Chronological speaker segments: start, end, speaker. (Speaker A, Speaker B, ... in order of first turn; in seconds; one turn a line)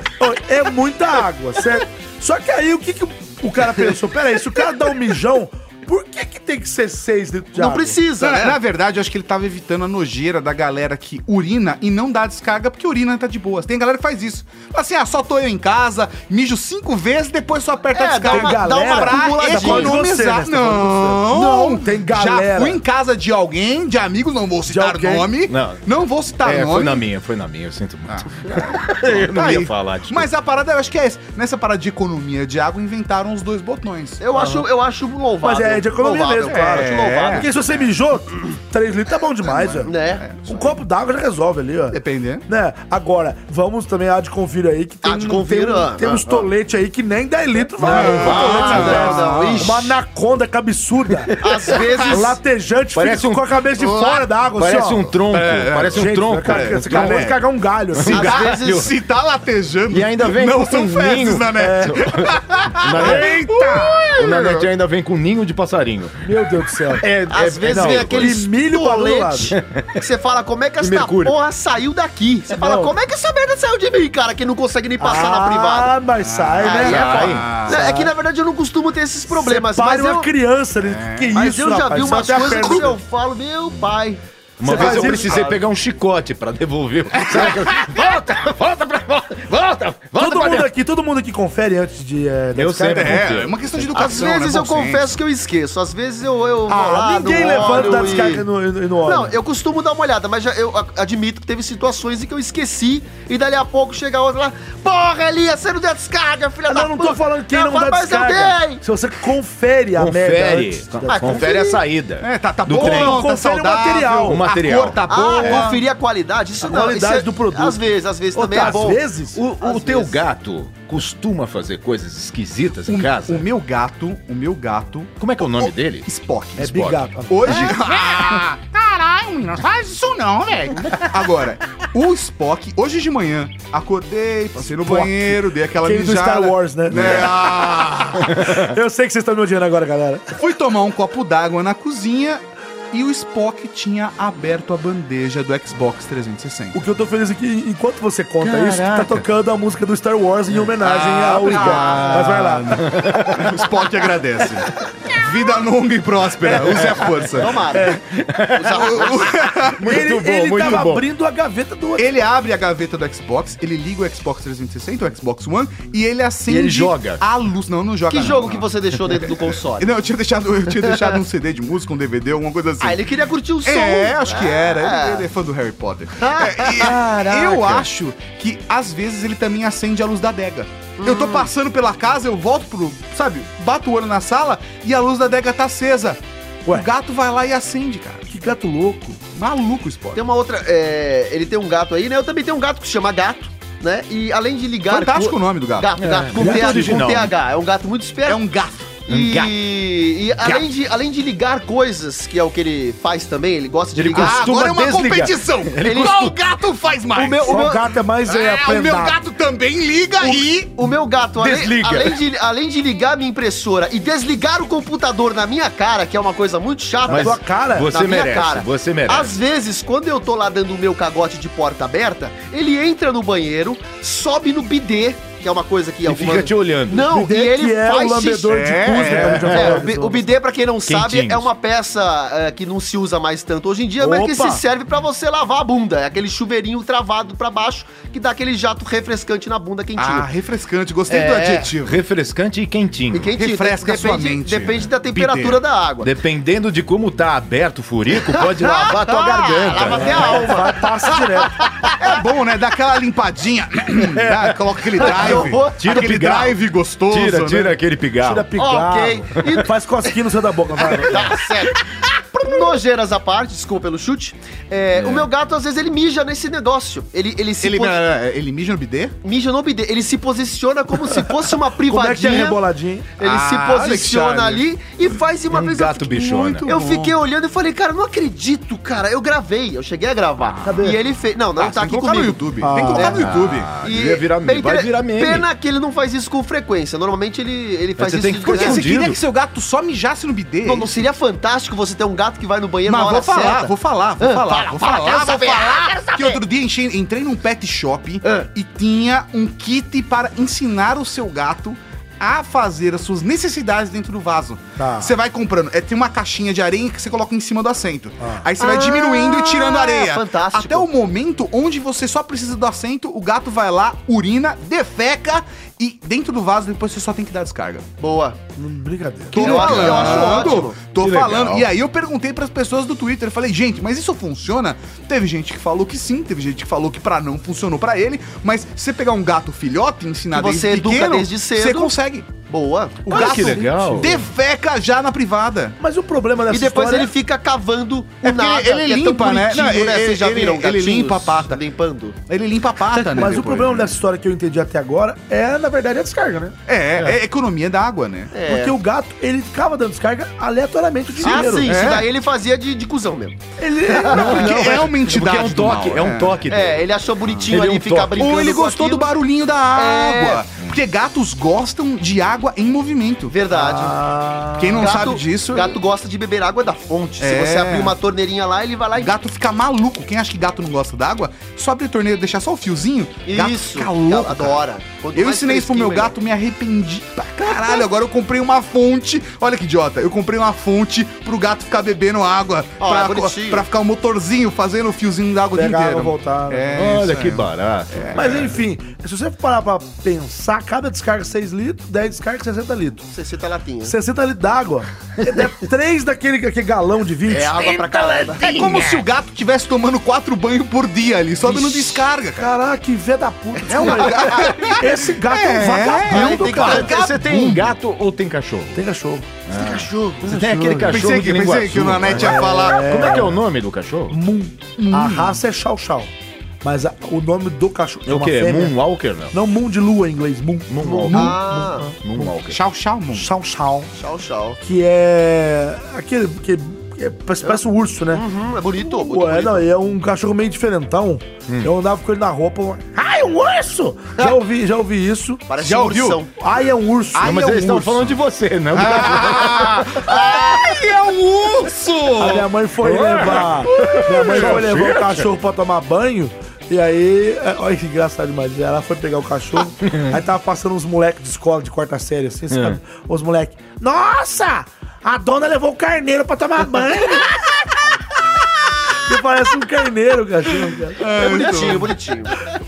Speaker A: 0.2-8.0
Speaker B: 7.5-8.6
Speaker C: 8.2-27.0
Speaker B: 17.9-20.0
Speaker A: 18.3-22.8
Speaker A: 24.7-25.3
Speaker D: 25.5-25.8
Speaker D: 26.4-30.3
Speaker C: 28.1-34.2
Speaker B: 34.2-37.5
Speaker A: 34.3-34.6
Speaker A: 35.4-51.3
Speaker C: 36.5-37.5
Speaker B: 39.8-40.2
Speaker C: 40.2-40.8
Speaker C: 41.9-42.4
Speaker B: 45.0-46.5
Speaker C: 47.8-49.8
Speaker D: 47.8-49.1
Speaker B: 47.9-50.0
Speaker D: 51.2-51.8
Speaker B: 51.4-52.4
Speaker A: 52.1-55.1
Speaker D: 52.9-53.6
Speaker C: 53.8-54.2
Speaker D: 54.5-57.3
Speaker C: 55.3-57.4
Speaker A: 55.9-58.4
Speaker D: 57.9-58.9
Speaker B: 58.1-58.9
Speaker C: 58.1-64.7
Speaker D: 59.9-63.6
Speaker A: 61.6-62.1
Speaker A: 63.0-63.7
Speaker D: 64.2-66.3
Speaker A: 66.2-67.1
Speaker D: 66.9-68.4
Speaker B: 67.3-75.9
Speaker A: 67.7-69.5
Speaker D: 69.5-70.0
Speaker D: 70.8-71.4
Speaker A: 72.5-72.9
Speaker A: 75.0-78.1
Speaker C: 76.2-77.8
Speaker B: 76.6-80.3
Speaker D: 76.7-77.6
Speaker A: 79.3-82.9
Speaker C: 80.8-81.3
Speaker B: 81.3-85.6
Speaker C: 82.5-82.8
Speaker D: 84.6-90.7
Speaker A: 84.6-85.5
Speaker C: 87.1-87.7
Speaker A: 90.2-93.3
Speaker D: 92.5-94.2
Speaker C: 92.8-95.1
Speaker B: 93.9-98.5
Speaker A: 96.7-99.3
Speaker B: 99.0-108.8
Speaker A: 106.7-111.5
Speaker D: 110.0-113.2
Speaker B: 111.1-111.8
Speaker C: 112.2-115.8
Speaker A: 112.7-114.4
Speaker D: 114.2-115.8
Speaker B: 115.1-119.0
Speaker A: 116.6-119.4
Speaker D: 119.3-123.5
Speaker B: 119.6-120.2
Speaker C: 122.9-128.5
Speaker D: 125.2-126.1
Speaker A: 126.6-127.7
Speaker E: 127.7-130.9
Speaker C: 130.9-138.5
Speaker A: 134.7-140.3
Speaker C: 140.3-146.8
Speaker A: 146.7-152.8
Speaker D: 148.4-149.2
Speaker C: 150.8-157.7
Speaker B: 151.5-152.1
Speaker D: 152.1-153.6
Speaker B: 157.3-158.0
Speaker D: 157.8-161.1
Speaker B: 158.6-159.4
Speaker C: 158.7-159.8
Speaker A: 159.8-162.2
Speaker C: 162.0-173.1
Speaker D: 166.5-167.2
Speaker B: 168.1-169.9
Speaker B: 170.7-171.2
Speaker B: 172.8-175.3
Speaker C: 173.6-188.3
Speaker B: 176.2-176.9
Speaker D: 176.7-177.9
Speaker B: 181.0-181.5
Speaker A: 188.3-189.2
Speaker C: 189.3-190.2
Speaker B: 190.1-198.4
Speaker C: 194.8-195.9
Speaker D: 196.0-197.3
Speaker A: 196.4-197.0
Speaker C: 198.2-198.9
Speaker B: 199.1-204.5
Speaker D: 199.1-199.5
Speaker D: 203.9-206.1
Speaker C: 204.1-207.7
Speaker B: 205.8-206.3
Speaker B: 207.2-207.8
Speaker A: 207.4-209.2
Speaker C: 208.2-210.7
Speaker B: 210.2-228.5
Speaker D: 211.4-212.2
Speaker D: 217.1-219.3
Speaker A: 217.1-217.9
Speaker D: 226.0-227.1
Speaker A: 227.1-230.3
Speaker C: 228.5-229.8
Speaker B: 229.2-240.3
Speaker D: 230.8-231.5
Speaker A: 234.0-234.6
Speaker C: 239.9-242.0
Speaker B: 241.1-241.7
Speaker D: 241.8-243.3
Speaker B: 243.1-246.1
Speaker C: 243.3-245.6
Speaker D: 246.0-250.5
Speaker B: 248.2-252.1
Speaker A: 249.9-251.6
Speaker C: 252.0-257.8
Speaker D: 254.0-258.6
Speaker B: 255.0-256.1
Speaker A: 258.2-261.3
Speaker B: 258.6-259.7
Speaker B: 260.8-261.8
Speaker B: 262.3-268.0
Speaker D: 264.9-265.3
Speaker C: 267.6-269.1
Speaker B: 269.2-272.6
Speaker A: 271.8-273.1
Speaker B: 273.2-288.9
Speaker C: 273.2-274.6
Speaker D: 275.5-276.7
Speaker C: 276.1-277.2
Speaker A: 280.6-281.0
Speaker C: 281.6-283.7
Speaker A: 282.6-283.2
Speaker D: 283.0-285.5
Speaker D: 288.0-289.2
Speaker C: 288.4-291.0
Speaker B: 290.6-296.4
Speaker C: 292.9-317.9
Speaker B: 298.2-298.5
Speaker A: 304.8-305.1
Speaker A: 308.2-308.4
Speaker B: 308.6-310.9
Speaker B: 318.0-318.4
Speaker A: 318.6-320.2
Speaker C: 319.3-332.3
Speaker B: 319.3-320.8
Speaker D: 319.6-321.7
Speaker B: 330.3-331.9
Speaker B: 332.5-333.4
Speaker C: 333.0-335.8
Speaker D: 333.1-334.2
Speaker A: 333.6-334.1
Speaker A: 335.8-337.1
Speaker B: 336.5-342.1
Speaker C: 338.2-341.6
Speaker C: 342.3-343.9
Speaker B: 342.9-343.3
Speaker A: 343.2-346.5
Speaker C: 346.7-348.3
Speaker B: 348.3-348.8
Speaker A: 348.4-351.8
Speaker C: 351.2-352.1
Speaker B: 351.2-353.4
Speaker A: 353.6-354.8
Speaker D: 354.0-356.9
Speaker C: 354.1-356.4
Speaker B: 356.5-359.1
Speaker C: 357.2-357.5
Speaker D: 357.5-358.3
Speaker C: 358.2-363.4
Speaker B: 359.7-360.4
Speaker B: 363.3-364.0
Speaker A: 363.5-365.0
Speaker C: 364.6-365.8
Speaker B: 364.8-369.1
Speaker C: 367.2-367.9
Speaker C: 369.0-388.5
Speaker B: 373.3-376.1
Speaker B: 377.4-377.8
Speaker B: 382.8-383.6
Speaker A: 385.5-386.8
Speaker D: 386.7-388.4
Speaker A: 388.1-393.1
Speaker B: 393.1-393.9
Speaker A: 393.8-397.6
Speaker B: 397.3-398.7
Speaker D: 397.8-398.9
Speaker C: 398.4-402.5
Speaker A: 401.4-406.9
Speaker B: 403.6-404.7
Speaker C: 403.7-407.7
Speaker B: 406.1-406.9
Speaker D: 406.5-408.8
Speaker A: 408.7-409.3
Speaker D: 409.4-414.2
Speaker B: 409.5-410.2
Speaker A: 410.2-411.1
Speaker C: 410.9-412.9
Speaker A: 412.1-413.4
Speaker A: 414.1-416.1
Speaker C: 414.8-415.4
Speaker A: 416.6-418.8
Speaker D: 418.1-419.3
Speaker A: 419.3-422.3
Speaker D: 420.7-421.4
Speaker B: 421.1-421.9
Speaker D: 422.0-422.6
Speaker C: 422.5-423.3
Speaker A: 423.1-423.9
Speaker B: 423.9-424.6
Speaker A: 424.6-428.2
Speaker B: 428.1-429.6
Speaker A: 428.8-435.4
Speaker B: 435.5-436.3
Speaker C: 435.6-436.2
Speaker A: 436.4-437.6
Speaker C: 437.1-438.1
Speaker D: 437.2-440.0
Speaker C: 438.7-442.5
Speaker B: 439.9-440.8
Speaker A: 442.2-457.4
Speaker D: 442.8-445.3
Speaker C: 443.8-444.5
Speaker D: 449.8-450.1
Speaker D: 452.5-452.8
Speaker A: 459.0-461.0
Speaker C: 461.0-462.0
Speaker B: 461.1-462.5